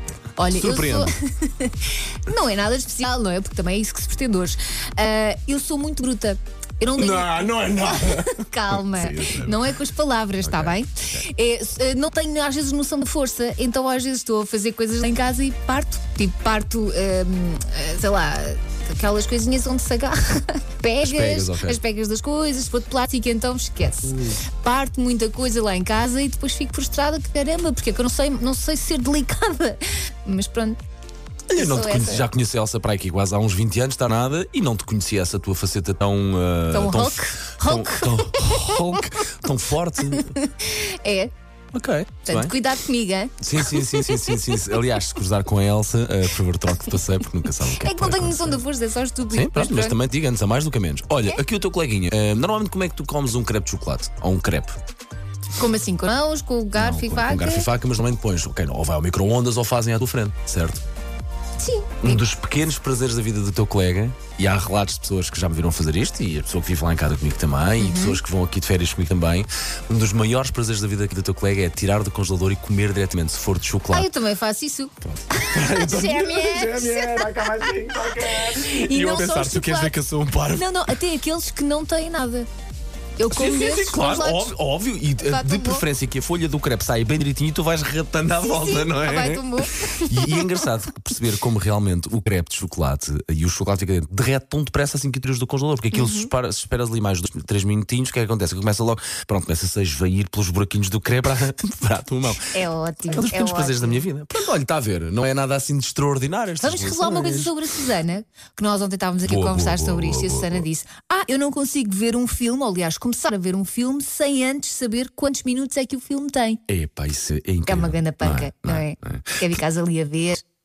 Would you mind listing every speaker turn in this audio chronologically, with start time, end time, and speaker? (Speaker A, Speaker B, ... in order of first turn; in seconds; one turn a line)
Speaker A: 0.4-30.8
Speaker B: 0.5-1.1
Speaker B: 7.0-9.8
Speaker B: 10.4-11.2
Speaker B: 21.0-21.8
Speaker B: 31.5-40.4
Speaker A: 31.6-32.3
Speaker A: 36.7-39.0
Speaker A: 40.1-41.3
Speaker B: 41.7-42.5
Speaker A: 42.3-44.6
Speaker B: 43.4-48.6
Speaker A: 47.6-50.0
Speaker B: 49.3-54.8
Speaker A: 55.5-57.7
Speaker B: 56.7-60.8
Speaker A: 61.6-62.2
Speaker B: 62.0-74.1
Speaker A: 67.8-68.2
Speaker A: 73.9-82.5
Speaker B: 75.0-80.7
Speaker A: 83.2-84.5
Speaker B: 83.3-102.5
Speaker A: 85.2-85.8
Speaker A: 88.4-90.7
Speaker A: 95.9-96.3
Speaker A: 102.5-104.0
Speaker B: 103.1-107.5
Speaker A: 106.6-116.6
Speaker B: 109.2-110.7
Speaker B: 116.7-119.4
Speaker A: 117.7-120.4